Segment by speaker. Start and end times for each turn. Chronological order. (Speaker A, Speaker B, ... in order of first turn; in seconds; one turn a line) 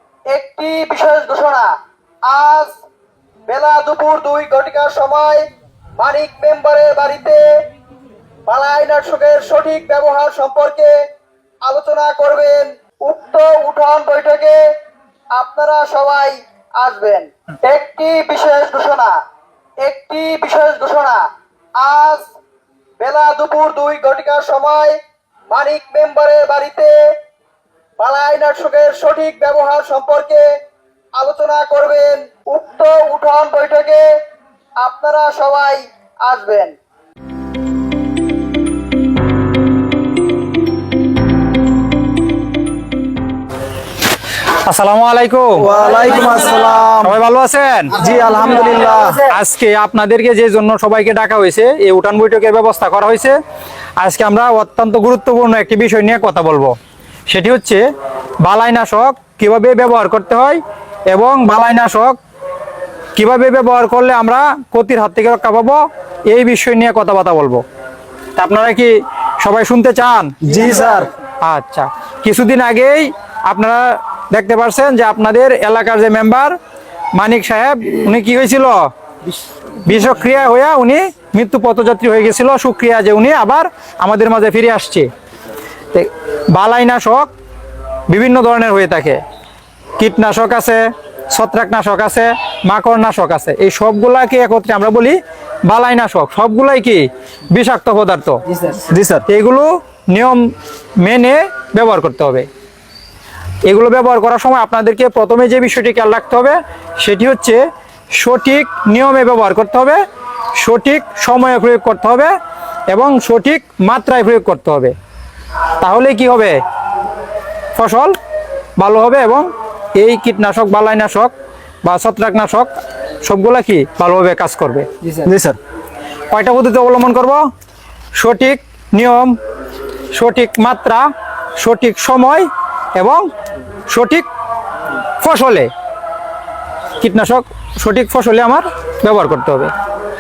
Speaker A: 0.3-1.7
Speaker A: 2.3-2.8
Speaker A: 3.5-5.4
Speaker A: 6.0-7.5
Speaker A: 8.5-11.0
Speaker A: 11.6-14.6
Speaker A: 15.3-19.1
Speaker A: 19.8-21.2
Speaker A: 21.8-22.3
Speaker A: 23.0-25.0
Speaker A: 25.5-27.0
Speaker A: 28.0-30.5
Speaker A: 31.2-34.2
Speaker A: 34.8-36.8
Speaker B: 44.7-45.7
Speaker C: 45.6-47.1
Speaker B: 47.0-48.0
Speaker C: 48.0-49.2
Speaker B: 49.2-53.4
Speaker B: 54.0-56.8
Speaker B: 57.3-57.8
Speaker B: 58.4-62.2
Speaker B: 63.2-67.6
Speaker B: 68.4-70.3
Speaker C: 70.4-71.1
Speaker B: 71.4-76.6
Speaker B: 77.2-78.9
Speaker B: 79.8-85.1
Speaker B: 85.9-87.3
Speaker B: 88.1-89.2
Speaker B: 90.0-98.4
Speaker C: 98.9-99.2
Speaker B: 99.3-102.5
Speaker B: 103.7-107.6
Speaker B: 108.2-110.0
Speaker B: 110.6-112.3
Speaker B: 112.9-114.9
Speaker B: 115.8-116.6
Speaker B: 117.8-118.1
Speaker B: 118.8-121.3
Speaker B: 121.8-122.7
Speaker B: 123.2-124.9
Speaker C: 125.2-125.6
Speaker B: 126.3-127.4
Speaker B: 128.2-129.3
Speaker B: 130.1-131.1
Speaker B: 131.6-133.3
Speaker B: 133.9-134.3
Speaker B: 135.2-135.7
Speaker B: 137.0-139.7